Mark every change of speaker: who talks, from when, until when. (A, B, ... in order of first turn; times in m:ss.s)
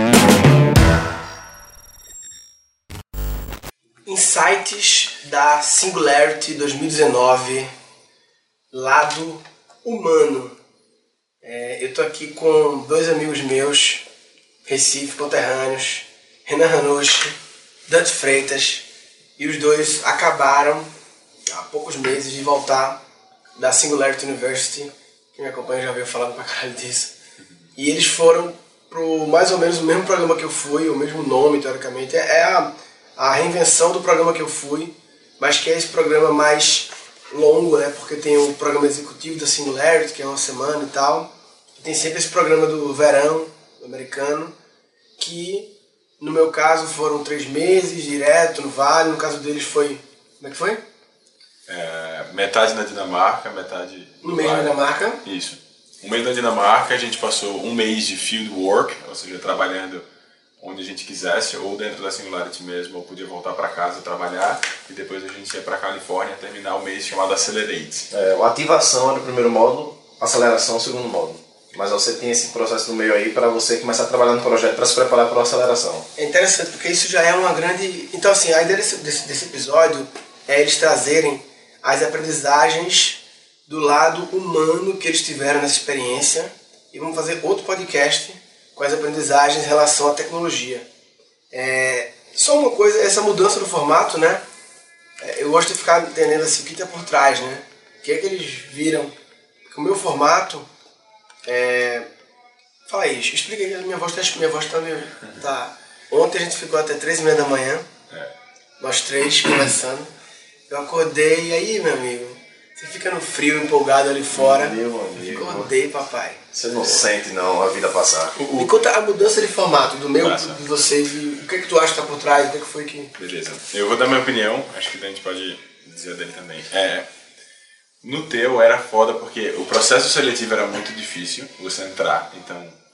0:04.0-0:07.7 A
0:08.7-0:10.6 A
0:11.4-0:14.0 A
0:14.6-0:17.4 A
0:17.9-0:18.8 A
0:19.4-0:20.9 A
0:21.5-0:23.0 A
0:23.6-0:27.1 A
0:27.8-0:44.5 A
0:45.2-0:50.8 A
0:51.7-1:00.0 B
0:54.2-0:55.2 A
1:00.6-1:08.1 B
1:08.1-1:16.0 C
1:16.2-1:30.9 A
1:31.5-1:34.4 A
1:35.2-1:39.1 A
1:39.7-1:40.7 A
1:41.4-1:42.1 A
1:42.8-1:47.9 A
1:48.8-1:50.1 A
1:50.7-1:56.4 A
1:54.3-1:55.7 C
1:56.5-1:58.4 C
1:58.4-1:58.7 B
1:58.5-2:03.1 A
2:00.2-2:00.6 B
2:03.2-2:07.0 B
2:08.0-2:12.8 B